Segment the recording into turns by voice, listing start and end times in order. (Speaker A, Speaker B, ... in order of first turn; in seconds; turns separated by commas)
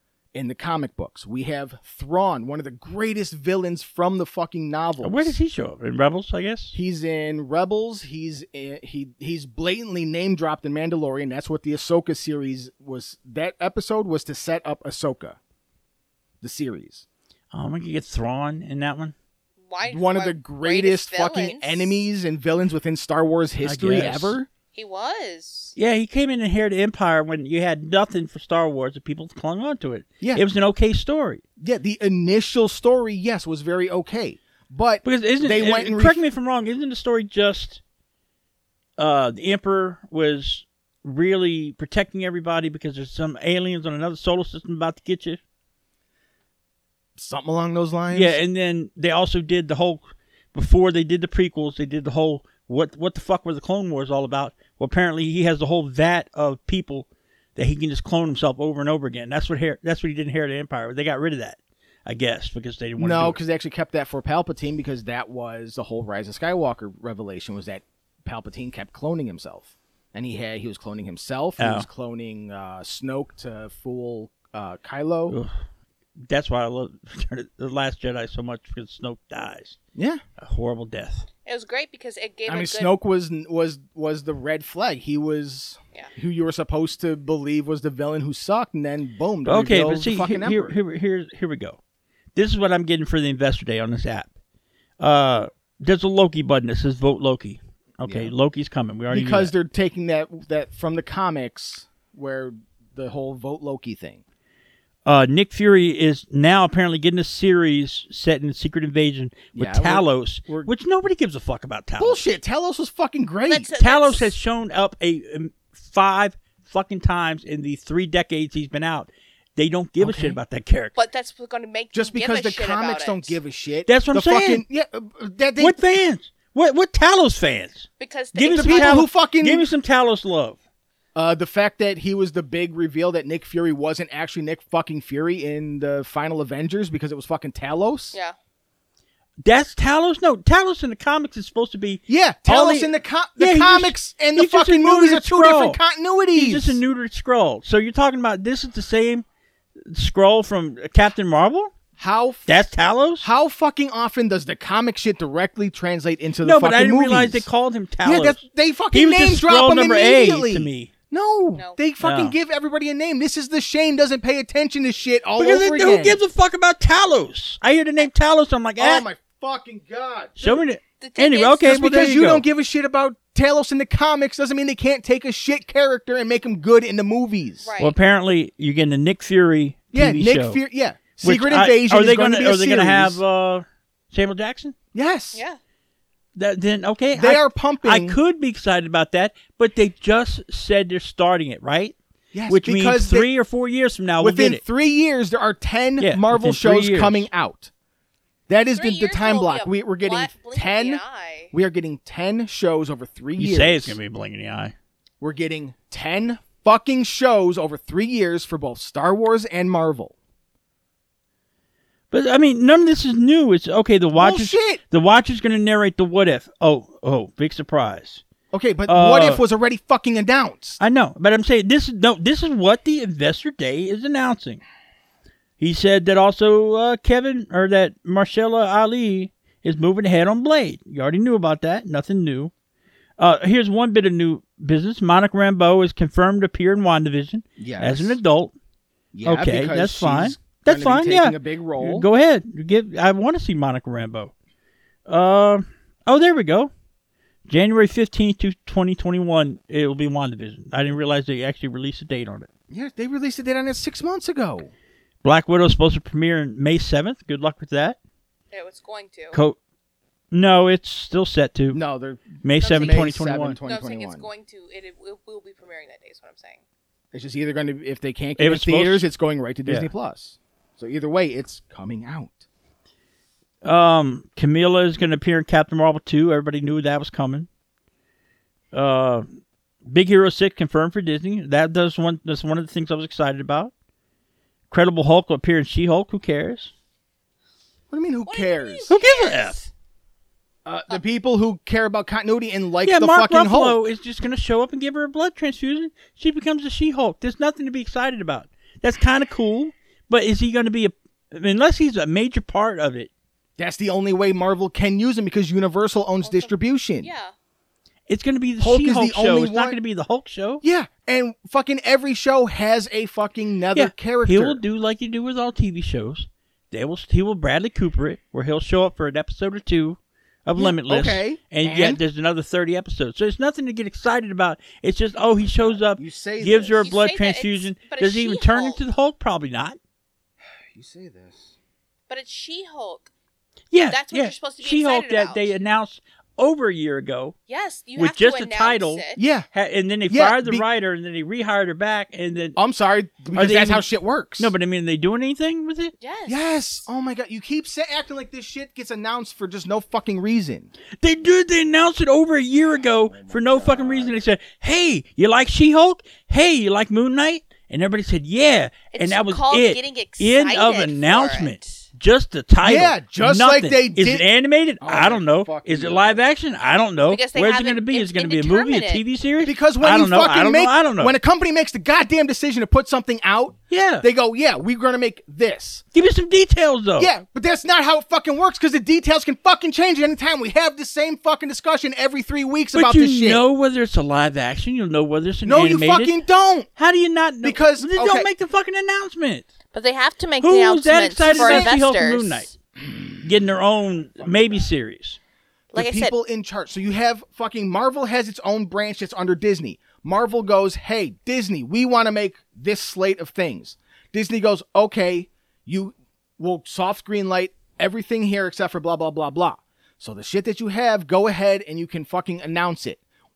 Speaker A: 0.3-5.3, Speaker B: 5.0-6.8, Speaker A: 6.7-15.4, Speaker A: 16.4-17.1, Speaker B: 17.5-19.1, Speaker C: 19.7-21.9, Speaker A: 19.8-24.5, Speaker B: 23.6-24.4, Speaker C: 24.7-25.7, Speaker B: 25.8-31.4, Speaker A: 31.6-36.2, Speaker B: 35.0-37.8, Speaker B: 39.0-45.4, Speaker A: 47.1-48.4, Speaker B: 48.1-63.4, Speaker A: 63.0-75.4, Speaker B: 71.6-71.9, Speaker B: 76.2-79.8, Speaker A: 80.0-80.2, Speaker B: 80.4-81.3, Speaker C: 81.4-82.9, Speaker A: 82.5-90.8, Speaker B: 89.5-91.8, Speaker B: 92.3-94.3, Speaker B: 95.0-99.5, Speaker A: 98.0-98.3, Speaker A: 99.1-104.2, Speaker B: 105.0-112.2, Speaker A: 109.5-110.7, Speaker A: 112.0-113.7, Speaker C: 113.5-114.3, Speaker B: 113.8-121.0, Speaker A: 120.0-120.4, Speaker C: 121.0-123.4, Speaker A: 121.9-125.9, Speaker B: 123.9-124.6, Speaker B: 125.6-130.6, Speaker C: 128.0-129.1, Speaker A: 128.5-129.7, Speaker A: 131.1-138.2, Speaker B: 139.4-145.8, Speaker A: 142.1-146.8, Speaker B: 146.3-149.2, Speaker B: 149.8-151.7, Speaker A: 152.0-152.6, Speaker B: 152.5-153.3, Speaker A: 153.2-157.5, Speaker B: 156.4-160.9, Speaker A: 158.0-166.2, Speaker B: 162.0-162.3, Speaker B: 165.4-169.1, Speaker A: 168.8-170.6, Speaker B: 170.4-172.4, Speaker C: 171.0-171.7, Speaker A: 171.6-177.7, Speaker C: 177.6-177.9, Speaker B: 177.8-180.6, Speaker A: 179.9-183.2, Speaker B: 181.2-184.8, Speaker A: 184.9-185.4, Speaker C: 185.3-185.6, Speaker B: 186.3-191.9, Speaker A: 187.1-188.2, Speaker A: 192.3-193.3, Speaker B: 192.5-194.6, Speaker A: 194.2-197.7, Speaker B: 196.0-197.3, Speaker A: 198.5-204.0, Speaker C: 198.7-201.5, Speaker B: 203.4-204.7, Speaker A: 205.2-210.1, Speaker B: 212.1-218.2, Speaker A: 214.2-214.8, Speaker A: 218.5-220.8, Speaker B: 218.9-219.4, Speaker B: 220.8-224.6, Speaker B: 225.6-232.5, Speaker B: 233.2-238.5, Speaker A: 237.6-238.2, Speaker A: 239.1-242.1, Speaker B: 239.2-244.3, Speaker B: 245.1-246.7, Speaker B: 247.5-252.5, Speaker A: 252.7-254.7, Speaker B: 255.2-258.0, Speaker C: 258.5-259.4, Speaker B: 259.3-259.6, Speaker B: 260.3-261.8, Speaker A: 261.7-264.3, Speaker B: 262.4-263.6, Speaker C: 262.6-263.1, Speaker C: 263.6-266.6, Speaker A: 267.1-272.4, Speaker B: 268.4-269.1, Speaker B: 273.6-277.5, Speaker B: 278.7-283.7, Speaker B: 284.7-286.7, Speaker A: 287.9-288.9, Speaker C: 288.3-289.7, Speaker B: 288.9-289.6, Speaker A: 290.6-293.8, Speaker B: 292.8-303.1, Speaker A: 303.6-307.1, Speaker C: 306.2-307.3, Speaker B: 308.1-310.6, Speaker A: 308.6-309.8, Speaker A: 310.6-314.6, Speaker B: 313.7-329.8, Speaker A: 320.6-322.0, Speaker A: 325.7-326.9, Speaker C: 326.8-328.8, Speaker A: 330.7-331.5, Speaker C: 332.1-333.1, Speaker B: 333.7-337.3, Speaker C: 333.9-335.5, Speaker C: 337.5-339.2, Speaker B: 337.9-342.6, Speaker A: 339.2-339.5, Speaker A: 340.1-340.6, Speaker A: 342.6-344.5, Speaker B: 343.3-343.9, Speaker B: 344.4-345.9, Speaker C: 346.0-346.8, Speaker A: 346.3-350.7, Speaker B: 351.0-371.1, Speaker A: 353.1-354.2, Speaker C: 358.9-361.8, Speaker A: 362.6-364.3, Speaker A: 364.8-366.2, Speaker C: 367.1-369.0, Speaker A: 369.4-375.8, Speaker B: 373.7-374.1, Speaker B: 375.9-377.1, Speaker A: 377.0-383.4, Speaker B: 382.7-386.1, Speaker A: 385.4-386.7, Speaker B: 386.8-389.5, Speaker A: 387.4-388.3, Speaker C: 389.7-392.5, Speaker B: 390.4-392.5, Speaker A: 391.3-391.7, Speaker B: 393.2-395.2, Speaker A: 394.2-394.6, Speaker C: 395.7-396.1, Speaker A: 395.7-413.0